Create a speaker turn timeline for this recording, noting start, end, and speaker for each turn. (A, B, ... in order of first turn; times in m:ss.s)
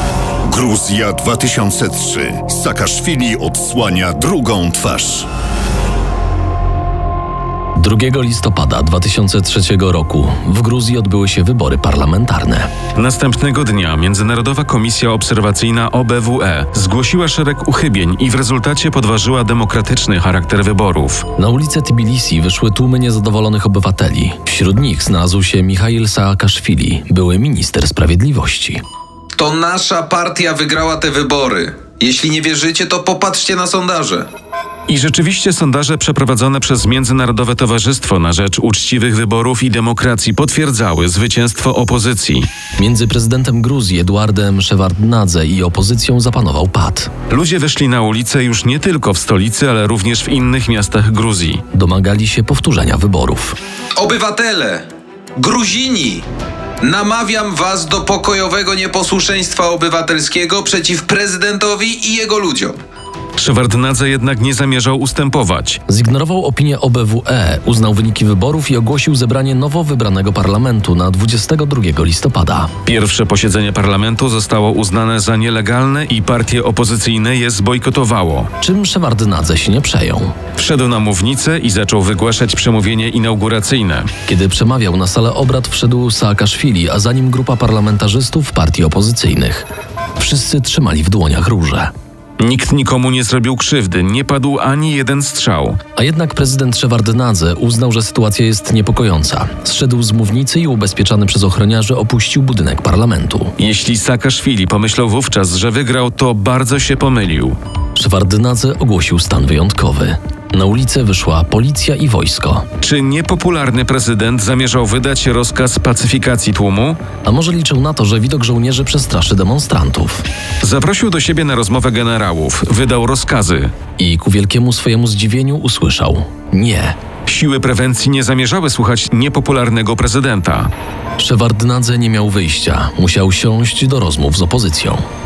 0:00.4-0:05.3 A
0:07.8-0:12.7 B
0:13.0-0:21.2 C
0:21.4-0:28.8 B
0:29.4-0:34.2 D
0:34.9-0:42.4 C
0:42.8-0:47.1 B
0:47.3-0:51.6 C
0:51.7-0:53.6 B
0:54.0-0:54.8 D
0:55.4-0:56.2 D
0:56.8-1:02.7 D
1:03.4-1:05.8 C
1:05.9-1:12.7 B
1:12.9-1:18.5 C
1:18.6-1:20.3 B
1:20.6-1:24.1 C
1:24.3-1:31.9 B
1:32.4-1:35.8 C
1:36.0-1:43.6 B
1:43.6-1:47.5 C
1:48.0-1:52.7 B
1:52.8-1:57.0 C
1:57.2-2:00.2 B
2:00.6-2:03.7 C
2:04.0-2:07.0 B
2:07.3-2:10.7 C
2:11.2-2:15.0 B